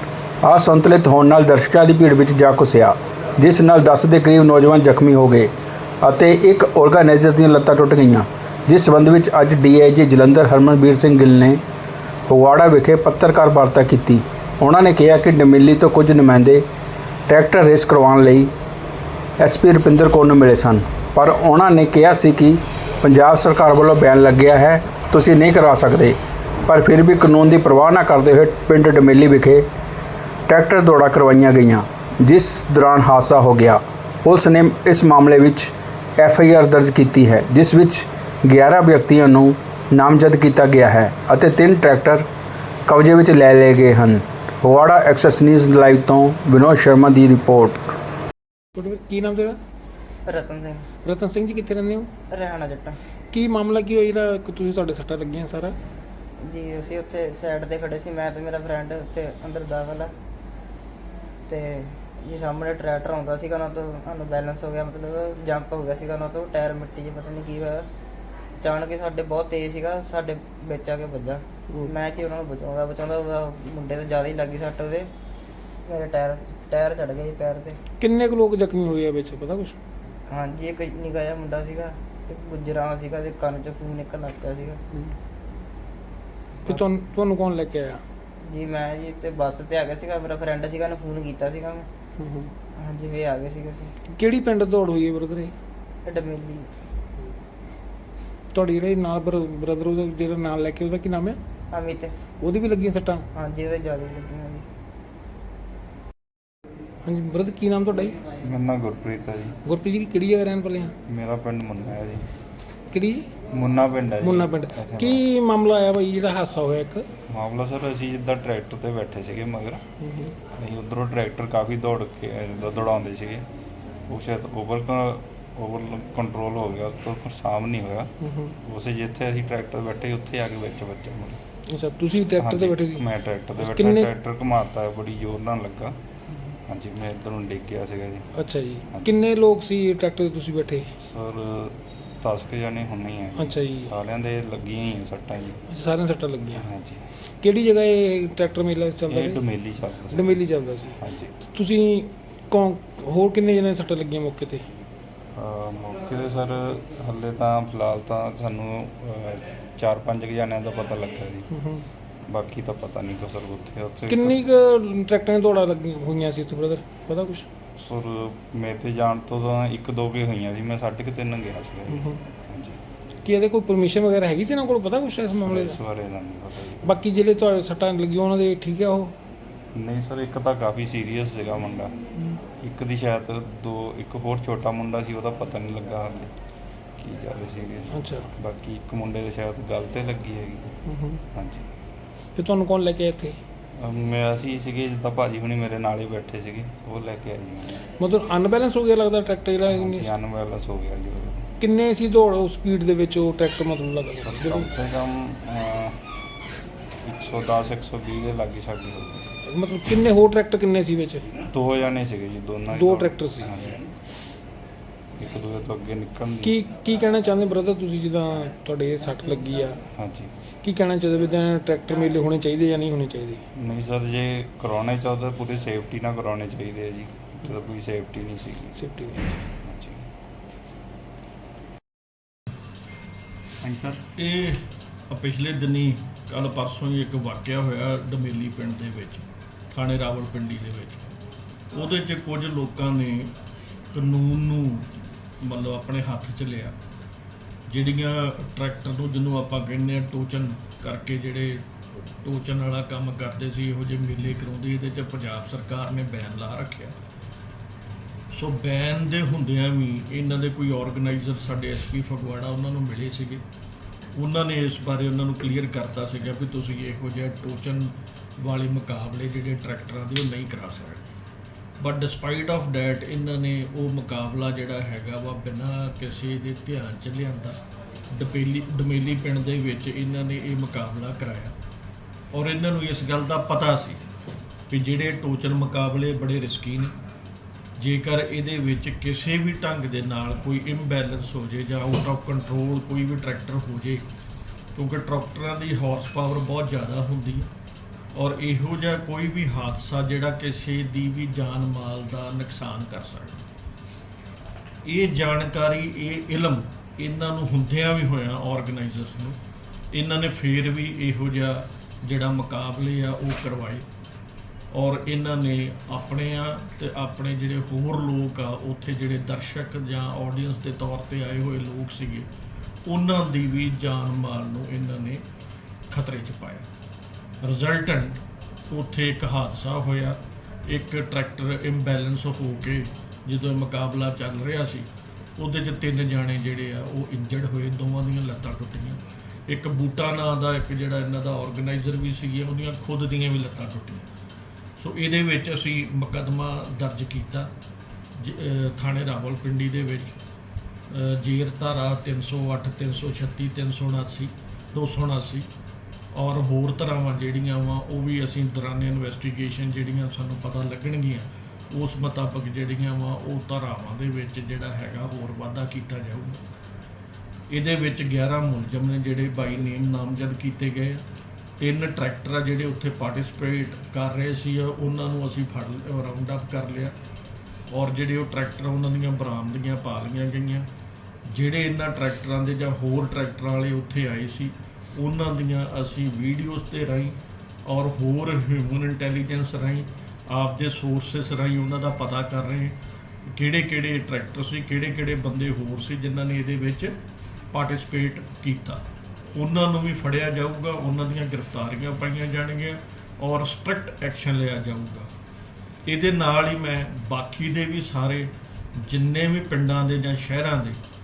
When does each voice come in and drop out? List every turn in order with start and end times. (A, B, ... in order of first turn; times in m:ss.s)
0:00.4-0:05.5 A
0:06.0-0:11.6 A
0:12.3-0:16.6 A
0:17.3-0:18.5 A
0:19.4-0:29.6 A
0:30.5-0:42.3 A
0:42.9-0:48.0 A
0:48.8-0:49.6 B
0:50.2-0:50.8 C
0:51.0-0:52.1 B
0:52.3-0:53.0 C
0:53.3-0:55.8 B
0:56.4-1:00.1 C
1:01.5-1:07.9 C
1:08.6-1:15.1 C
1:15.9-1:17.8 C
1:18.0-1:19.8 B
1:20.3-1:24.8 C
1:26.6-1:28.0 B
1:28.4-1:31.9 C
1:32.2-1:32.5 B
1:32.7-1:33.9 C
1:34.2-1:35.5 B
1:36.0-1:36.7 C
1:38.5-1:41.4 B
1:41.7-1:42.2 C
1:42.4-1:43.3 B
1:43.3-1:44.6 C
1:47.0-1:48.2 B
1:48.4-1:49.6 D
1:49.6-1:50.9 B
1:51.1-1:52.3 D
1:52.9-1:53.3 B
1:53.5-1:55.2 D
1:54.2-1:57.1 B
1:57.3-1:59.8 D
2:00.1-2:00.3 B
2:00.5-2:03.4 D
2:04.1-2:11.4 D
2:08.2-2:08.5 B
2:11.7-2:13.0 B
2:12.4-2:16.0 D
2:13.6-2:14.0 B
2:16.7-2:18.3 D
2:18.4-2:20.9 B
2:21.0-2:25.6 D
2:23.4-2:23.9 B
2:25.7-2:26.6 B
2:26.6-2:27.0 D
2:27.4-2:29.4 B
2:29.1-2:30.4 D
2:30.1-2:34.6 B
2:31.0-2:31.3 D
2:35.4-2:41.5 D
2:41.5-2:41.9 B
2:42.3-2:44.4 D
2:44.1-2:47.5 B
2:47.8-2:52.8 D
2:53.2-2:55.8 B
2:55.4-2:57.0 D
2:56.8-2:59.1 B
2:59.7-3:01.9 D
3:02.6-3:06.3 D
3:07.0-3:10.8 D
3:08.0-3:08.3 B
3:10.9-3:11.2 B
3:11.3-3:11.7 D
3:12.4-3:13.4 B
3:13.8-3:17.8 D
3:18.0-3:20.1 B
3:19.7-3:21.5 D
3:21.6-3:24.7 B
3:24.2-3:26.1 D
3:27.0-3:29.3 D
3:29.5-3:31.3 B
3:31.4-3:33.9 D
3:32.8-3:33.5 B
3:35.2-3:36.5 D
3:36.4-3:39.8 B
3:40.0-3:40.3 D
3:40.6-3:43.4 B
3:43.6-3:48.8 D
3:48.8-3:49.4 B
3:49.6-3:50.1 D
3:53.6-4:01.1 E
4:01.7-4:03.4 E
4:03.9-4:06.8 E
4:07.7-4:11.7 E
4:12.2-4:17.0 E
4:18.3-4:23.4 E
4:24.1-4:31.2 E
4:31.8-4:37.6 E
4:38.1-4:41.6 E
4:42.3-4:44.0 E
4:44.7-4:46.9 E
4:47.8-4:54.1 E
4:54.8-4:57.5 E
4:58.1-5:03.4 E
5:04.8-5:09.4 E
5:09.9-5:13.8 E
5:14.7-5:22.3 E
5:22.9-5:25.2 E
5:25.9-5:26.7 E
5:27.4-5:44.1 E
5:44.8-5:47.5 E
5:48.2-5:50.1 E
5:50.9-5:55.5 E
5:56.1-6:06.4 E
6:07.5-6:11.0 E
6:11.6-6:17.0 E
6:17.7-6:20.7 E
6:21.3-6:37.0 E
6:37.5-6:38.8 E
6:39.4-6:45.1 E
6:45.9-6:50.8 E